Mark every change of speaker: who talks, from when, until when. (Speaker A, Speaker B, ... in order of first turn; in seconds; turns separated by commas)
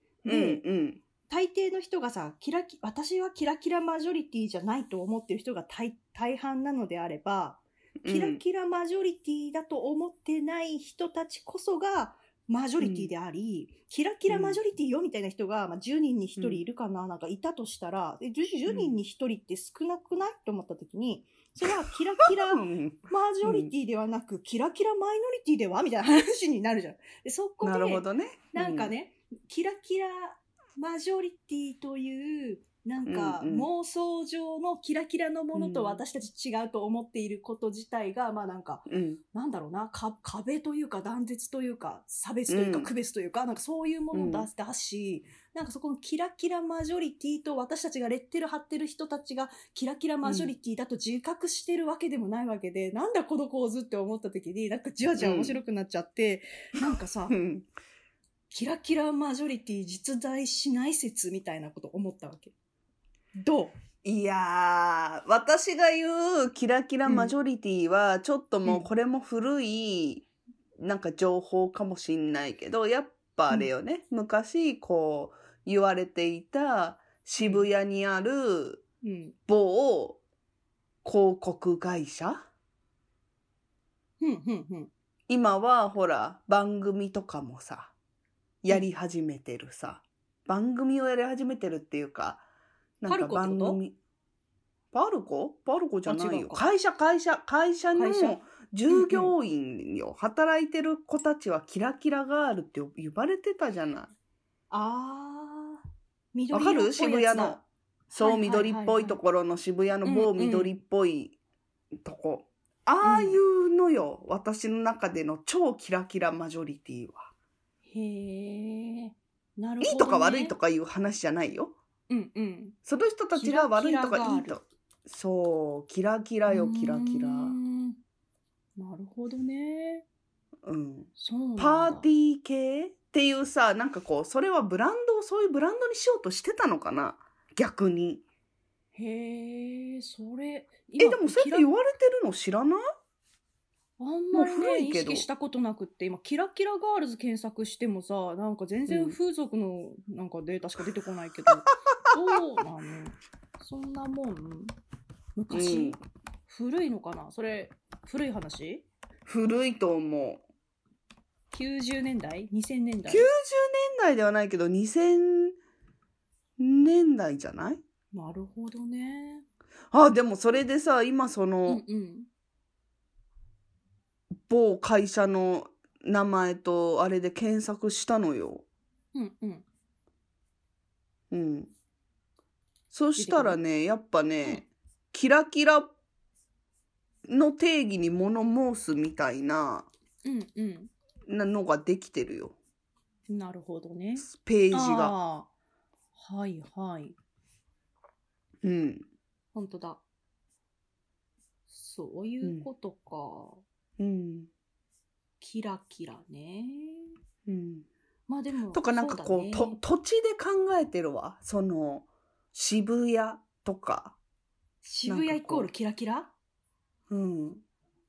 Speaker A: 0.2-0.6, Speaker B: 0.2-1.0, Speaker A: 1.3-57.4, Speaker B: 8.0-8.4, Speaker B: 12.8-13.1, Speaker B: 14.3-14.6, Speaker B: 16.4-16.6, Speaker B: 18.7-19.0, Speaker B: 22.3-23.7, Speaker B: 27.6-28.9, Speaker B: 33.0-33.7, Speaker B: 35.5-36.0, Speaker B: 38.9-39.2, Speaker B: 42.5-42.9, Speaker B: 44.1-44.5, Speaker B: 50.2-50.5, Speaker B: 55.2-55.6, Speaker B: 57.3-57.7, Speaker A: 58.5-62.5, Speaker A: 63.4-63.8, Speaker B: 64.0-70.3, Speaker A: 67.0-67.3, Speaker B: 70.8-78.8, Speaker A: 77.4-77.7, Speaker A: 79.0-79.4, Speaker B: 79.5-80.2, Speaker B: 81.0-82.5, Speaker A: 84.2-84.9, Speaker B: 85.3-87.9, Speaker B: 88.6-92.5, Speaker B: 93.0-94.0, Speaker A: 93.1-93.8, Speaker B: 94.9-104.1, Speaker A: 96.1-96.7, Speaker A: 98.0-99.3, Speaker A: 104.7-105.8, Speaker A: 106.3-107.6, Speaker B: 106.5-111.4, Speaker A: 108.2-109.2, Speaker A: 110.0-110.7, Speaker B: 112.0-117.3, Speaker A: 113.0-113.4, Speaker A: 117.9-120.5, Speaker B: 119.8-121.8, Speaker A: 122.1-122.8, Speaker B: 122.9-127.6, Speaker A: 123.3-124.6, Speaker A: 126.5-128.0, Speaker A: 128.8-130.1, Speaker B: 130.6-138.2, Speaker A: 131.2-132.1, Speaker A: 138.9-141.7, Speaker B: 141.0-142.8, Speaker A: 144.0-154.7, Speaker B: 144.3-145.3, Speaker B: 148.9-149.2, Speaker A: 155.4-156.0, Speaker B: 155.5-156.0, Speaker A: 156.5-158.8, Speaker B: 159.3-160.4, Speaker A: 161.5-163.3, Speaker B: 163.1-165.6, Speaker B: 166.6-167.8, Speaker A: 168.1-169.4, Speaker B: 169.9-171.8, Speaker A: 171.7-172.3, Speaker B: 174.4-178.7, Speaker A: 179.1-179.7, Speaker B: 181.3-181.7, Speaker B: 182.9-185.9, Speaker A: 183.2-183.6, Speaker B: 187.3-189.9, Speaker A: 190.2-190.9, Speaker B: 191.3-192.6, Speaker A: 193.3-195.5, Speaker B: 194.2-195.2, Speaker A: 196.2-197.2, Speaker B: 198.6-199.1, Speaker A: 199.5-200.0, Speaker A: 201.7-203.6, Speaker B: 202.4-202.7, Speaker B: 204.0-204.5, Speaker A: 205.4-207.1, Speaker B: 207.5-207.9, Speaker A: 208.3-209.8, Speaker B: 208.7-214.2, Speaker A: 214.8-216.3, Speaker B: 215.1-215.7, Speaker B: 217.1-217.6